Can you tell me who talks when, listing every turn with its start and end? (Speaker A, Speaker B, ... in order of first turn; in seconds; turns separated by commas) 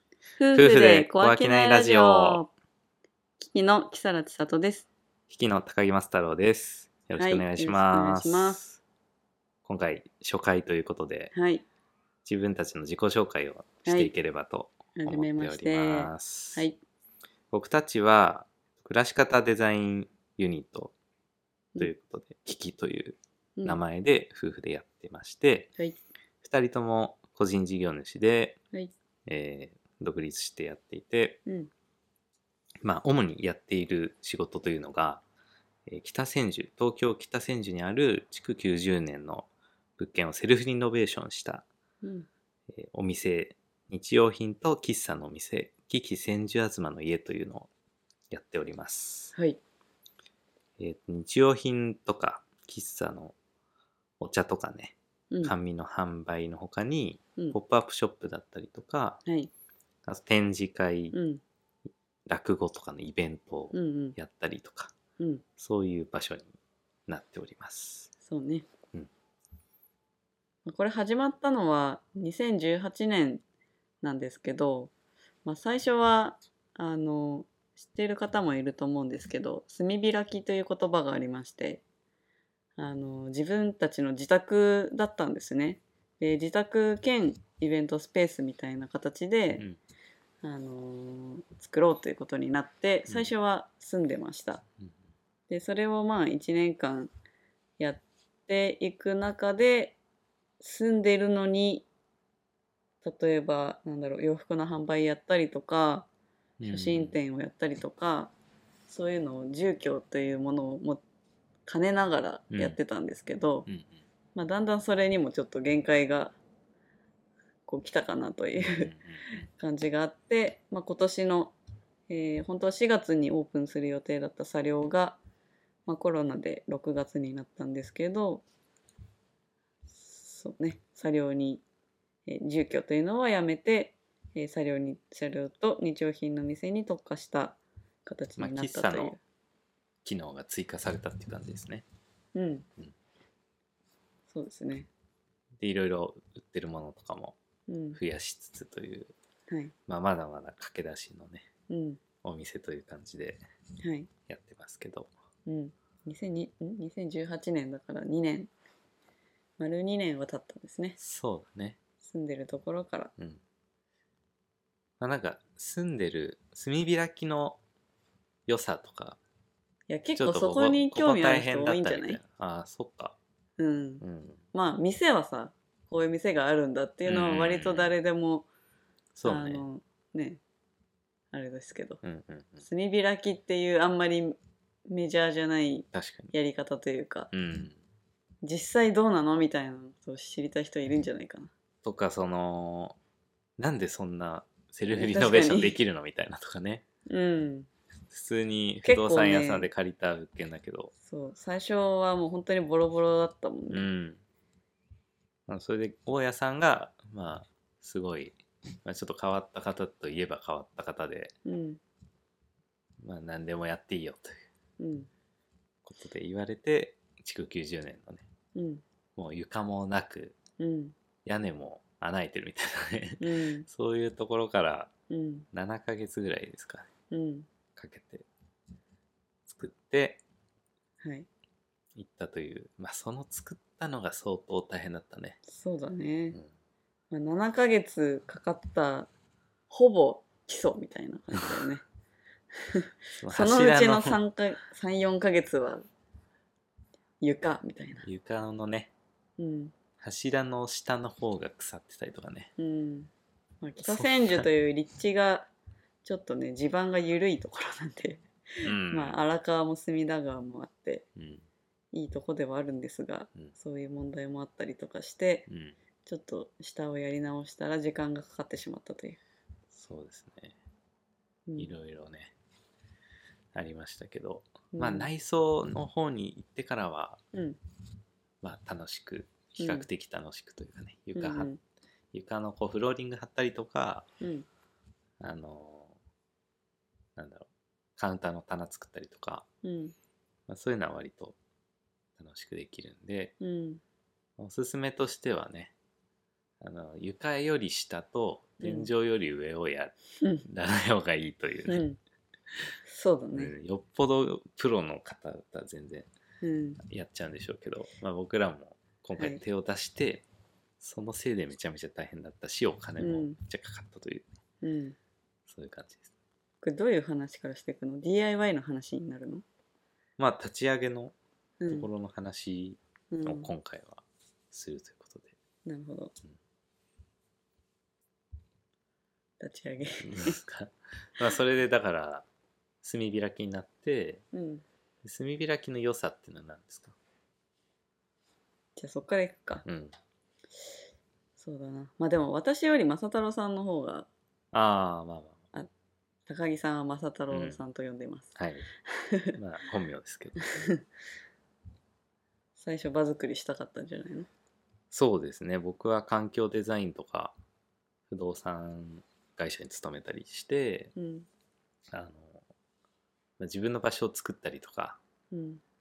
Speaker A: 0.4-2.5, Speaker B: 0.5-2.4, Speaker A: 3.4-4.9, Speaker B: 5.3-8.8, Speaker A: 7.2-8.6, Speaker B: 9.7-11.3, Speaker A: 11.3-11.6, Speaker B: 12.2-16.7, Speaker A: 13.8-14.1, Speaker A: 15.0-16.8, Speaker B: 17.5-20.9, Speaker B: 21.8-25.7, Speaker B: 26.4-28.6, Speaker B: 29.3-31.4, Speaker A: 31.5-31.7, Speaker B: 32.8-35.2, Speaker B: 35.9-41.6, Speaker A: 42.0-42.3, Speaker B: 42.7-47.7, Speaker B: 48.3-49.4, Speaker B: 50.8-53.4, Speaker B: 54.2-59.2, Speaker B: 60.1-61.2, Speaker A: 61.1-61.4, Speaker B: 62.3-64.9, Speaker A: 63.7-64.2, Speaker A: 65.2-65.4, Speaker B: 65.6-66.5, Speaker B: 67.1-68.1, Speaker A: 68.2-68.7, Speaker A: 70.7-73.4, Speaker A: 74.0-74.9, Speaker A: 75.5-81.8, Speaker A: 82.8-89.7, Speaker A: 90.4-94.6, Speaker A: 95.5-97.1, Speaker A: 97.8-100.0, Speaker A: 100.6-101.9, Speaker A: 103.0-106.1, Speaker B: 106.6-107.2, Speaker A: 106.7-108.3, Speaker A: 108.9-111.0, Speaker A: 111.7-113.7, Speaker B: 112.5-112.8, Speaker B: 113.7-114.0, Speaker A: 114.3-116.4, Speaker A: 117.7-121.5, Speaker B: 118.5-119.4, Speaker A: 122.1-125.2, Speaker A: 125.9-128.4, Speaker A: 130.0-131.6, Speaker A: 132.3-139.2, Speaker B: 138.4-139.2, Speaker B: 140.0-141.8, Speaker A: 142.3-142.7, Speaker A: 144.3-144.9, Speaker B: 145.6-147.4, Speaker A: 147.7-148.0, Speaker B: 147.9-149.1, Speaker B: 149.9-151.5, Speaker A: 151.7-152.0, Speaker B: 152.2-153.4, Speaker A: 153.8-154.1, Speaker B: 154.3-155.1, Speaker A: 155.5-158.5, Speaker A: 159.6-161.0, Speaker B: 161.0-161.8, Speaker A: 162.0-163.1, Speaker B: 165.0-167.6, Speaker B: 168.5-169.2, Speaker A: 169.9-172.2, Speaker B: 170.2-173.2, Speaker A: 173.6-178.5, Speaker B: 174.0-174.4, Speaker B: 177.1-177.9, Speaker B: 179.2-179.6, Speaker A: 179.2-180.4, Speaker A: 181.3-182.0, Speaker B: 182.0-182.7, Speaker A: 182.6-184.4, Speaker A: 184.9-187.3, Speaker B: 185.9-186.3, Speaker B: 187.3-187.8, Speaker A: 188.4-191.5, Speaker B: 191.8-193.0, Speaker B: 193.6-196.8, Speaker A: 194.9-195.8, Speaker A: 197.1-197.7, Speaker B: 198.1-200.9, Speaker A: 198.8-199.7, Speaker A: 201.1-203.9, Speaker B: 203.7-204.2, Speaker B: 205.5-211.3, Speaker A: 211.4-211.8, Speaker B: 213.0-214.5, Speaker A: 214.8-215.1, Speaker B: 215.8-218.3, Speaker A: 218.6-218.8, Speaker B: 219.2-220.4, Speaker A: 220.6-220.9, Speaker B: 221.2-224.9, Speaker A: 223.2-223.7, Speaker A: 225.1-225.5, Speaker B: 225.5-226.9, Speaker A: 227.1-227.5, Speaker B: 227.8-228.3, Speaker B: 229.5-230.2, Speaker A: 231.0-231.3, Speaker B: 232.0-235.4, Speaker A: 235.5-236.4, Speaker A: 237.1-239.1, Speaker A: 239.7-241.8, Speaker A: 242.7-245.8, Speaker B: 243.2-244.2, Speaker A: 247.2-248.1, Speaker B: 248.0-248.9, Speaker A: 249.4-249.7, Speaker B: 250.0-252.5, Speaker A: 252.6-253.1, Speaker A: 253.6-255.5, Speaker B: 253.8-254.5, Speaker A: 256.1-261.1, Speaker B: 258.6-259.2, Speaker B: 261.2-261.5, Speaker A: 261.9-265.5, Speaker B: 265.5-265.8, Speaker A: 266.0-269.2, Speaker B: 269.7-270.6, Speaker B: 271.6-272.3, Speaker B: 273.5-277.2, Speaker A: 274.7-275.1, Speaker A: 277.3-277.6, Speaker B: 278.4-281.5, Speaker A: 279.6-279.9, Speaker A: 281.2-281.6, Speaker B: 282.1-284.1, Speaker A: 284.2-284.5, Speaker B: 285.2-285.9, Speaker B: 287.2-289.5, Speaker A: 289.6-289.9, Speaker B: 290.5-291.4, Speaker B: 292.2-293.4, Speaker A: 293.4-293.8, Speaker B: 294.4-295.7, Speaker B: 296.6-301.9, Speaker A: 298.6-298.9, Speaker A: 301.7-302.0, Speaker A: 302.9-303.5, Speaker B: 303.3-306.1, Speaker A: 306.4-306.8, Speaker B: 306.8-310.3, Speaker B: 310.8-314.3, Speaker A: 313.0-313.4, Speaker A: 314.6-315.0, Speaker B: 315.5-316.1, Speaker A: 316.6-319.4, Speaker B: 320.2-321.1, Speaker A: 321.6-321.9, Speaker B: 321.7-325.4, Speaker A: 323.1-323.5, Speaker A: 325.7-326.1, Speaker A: 329.4-330.4, Speaker B: 330.0-332.2, Speaker B: 332.8-334.2, Speaker A: 334.3-334.6, Speaker B: 335.0-337.0, Speaker A: 338.8-339.6, Speaker B: 339.6-339.9, Speaker A: 341.4-344.1, Speaker B: 344.5-345.4, Speaker A: 346.3-348.3, Speaker B: 347.3-347.6, Speaker B: 348.4-348.7, Speaker A: 348.9-349.4, Speaker B: 349.4-350.4, Speaker A: 350.4-350.8, Speaker A: 352.6-354.3, Speaker B: 354.9-357.4, Speaker B: 358.1-360.9, Speaker A: 360.9-361.3, Speaker B: 361.9-362.4, Speaker B: 363.4-365.0, Speaker A: 365.3-365.6